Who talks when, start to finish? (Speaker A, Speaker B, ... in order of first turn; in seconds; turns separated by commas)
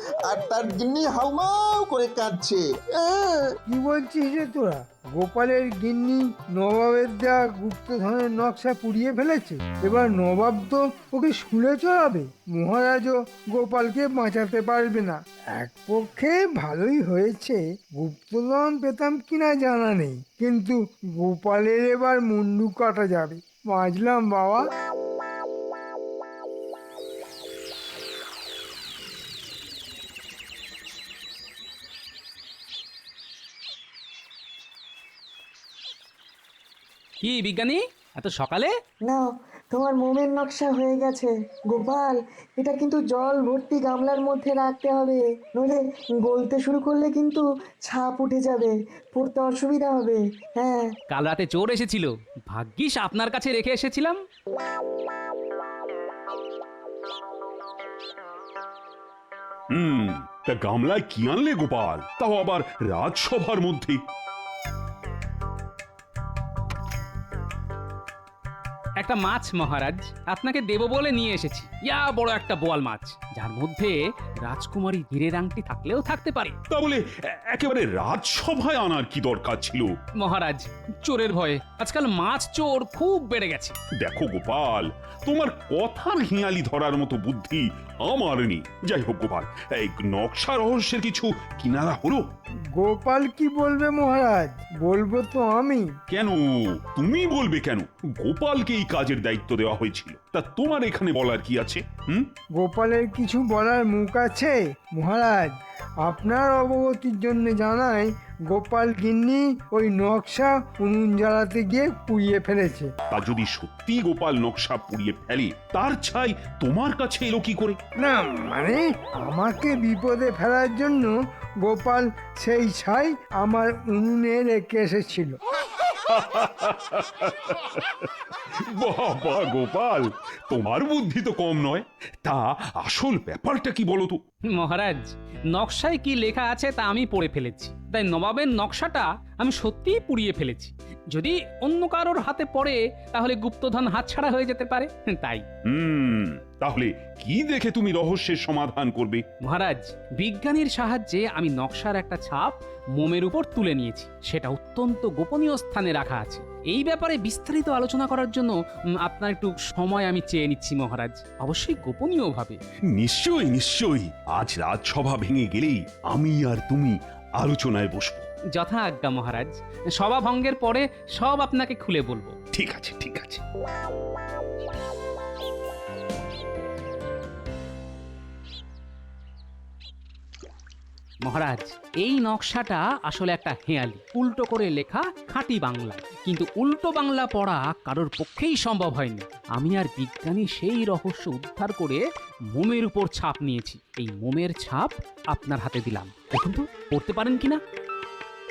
Speaker A: 0.3-3.5, Speaker B: 3.7-24.6, Speaker C: 37.2-38.7, Speaker D: 39.0-50.9, Speaker C: 51.1-54.1, Speaker E: 59.7-64.0, Speaker C: 69.0-76.5, Speaker E: 76.7-79.9, Speaker C: 80.2-83.7, Speaker E: 84.0-92.2, Speaker B: 92.8-95.9, Speaker E: 96.1-96.4, Speaker E: 96.9-102.3, Speaker B: 102.6-105.5, Speaker B: 106.0-112.9, Speaker E: 113.1-117.8, Speaker B: 118.0-121.1, Speaker B: 121.6-125.4, Speaker E: 126.0-128.1, Speaker E: 128.8-134.2, Speaker C: 134.5-145.4, Speaker E: 145.7-149.2, Speaker C: 149.4-158.5, Speaker C: 159.0-162.6, Speaker E: 162.9-168.3, Speaker C: 168.5-172.3, Speaker E: 172.5-173.4, Speaker C: 181.2-192.0, Speaker C: 192.5-197.6